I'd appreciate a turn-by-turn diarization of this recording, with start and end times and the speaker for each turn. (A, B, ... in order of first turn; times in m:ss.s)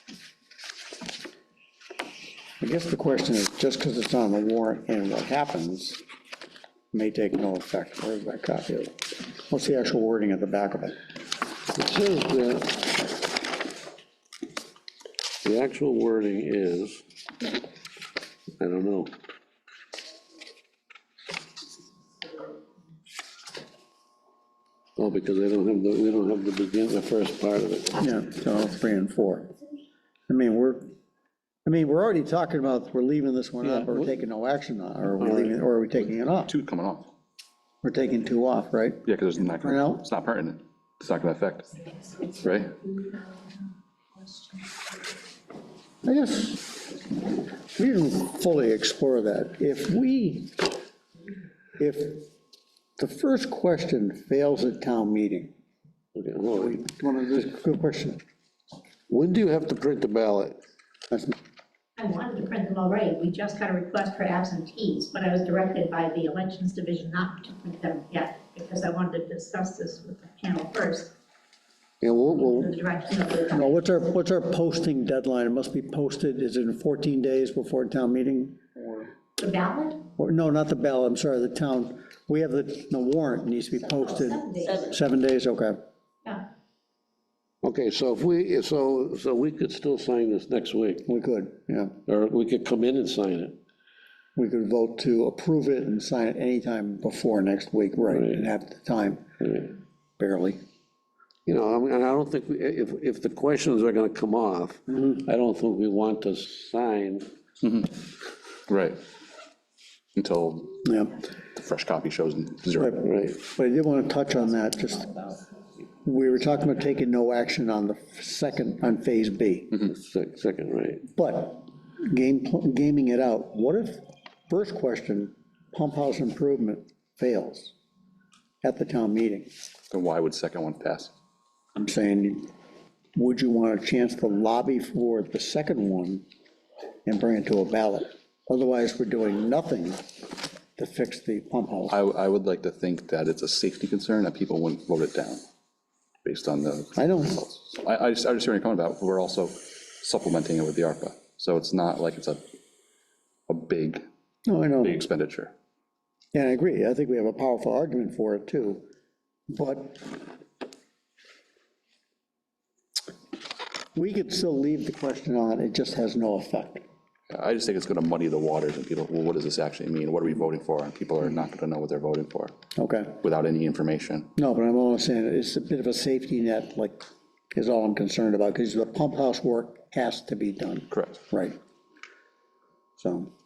0:02.6-0:06.0 A
0:06.9-0:11.0 A
0:11.7-0:12.9 B
0:15.4-0:17.0 B
0:18.6-0:19.1 B
0:25.0-0:28.0 B
0:28.0-0:29.5 A
0:30.3-0:30.9 A
0:31.7-0:36.5 A
0:33.6-0:34.2 B
0:35.2-0:35.5 B
0:36.5-0:37.1 C
0:37.8-0:40.0 A
0:39.1-0:41.8 C
0:42.3-0:42.8 C
0:46.0-0:46.8 A
0:47.8-0:50.6 A
0:51.8-0:52.3 A
0:53.0-0:55.5 A
0:56.2-0:56.9 B
0:56.5-0:58.2 A
0:59.1-1:00.6 B
1:01.1-1:01.4 A
1:02.0-1:11.1 D
1:12.0-1:12.8 B
1:12.1-1:13.8 D
1:13.5-1:19.1 A
1:19.4-1:20.0 D
1:20.2-1:25.8 A
1:23.8-1:24.9 D
1:27.6-1:31.1 B
1:31.1-1:32.0 A
1:32.1-1:33.6 B
1:34.4-1:39.3 A
1:38.1-1:38.4 B
1:39.4-1:39.7 B
1:40.2-1:40.6 A
1:41.5-1:47.3 B
1:47.6-1:48.0 C
1:48.7-1:49.0 C
1:50.2-1:50.9 C
1:50.8-1:51.1 A
1:51.6-1:53.0 C
1:52.8-1:55.2 A
1:53.0-1:53.4 B
1:56.0-1:59.8 A
1:59.9-2:01.0 B
2:01.1-2:07.7 A
2:08.6-2:09.5 A
2:09.9-2:11.1 C
2:11.8-2:12.5 A
2:13.2-2:16.2 A
2:17.1-2:20.1 A
2:20.8-2:22.0 A
2:21.9-2:25.4 C
2:26.2-2:32.4 C
2:27.0-2:27.4 A
2:33.5-2:34.0 C
2:34.5-2:35.0 A
2:34.8-2:35.5 C
2:36.3-2:38.8 A
2:39.5-2:40.2 A
2:44.0-2:46.8 A
2:47.3-2:52.6 C
2:52.8-2:53.2 A
2:53.2-2:54.3 C
2:54.4-3:01.6 A
3:00.9-3:01.2 C
3:03.0-3:03.3 A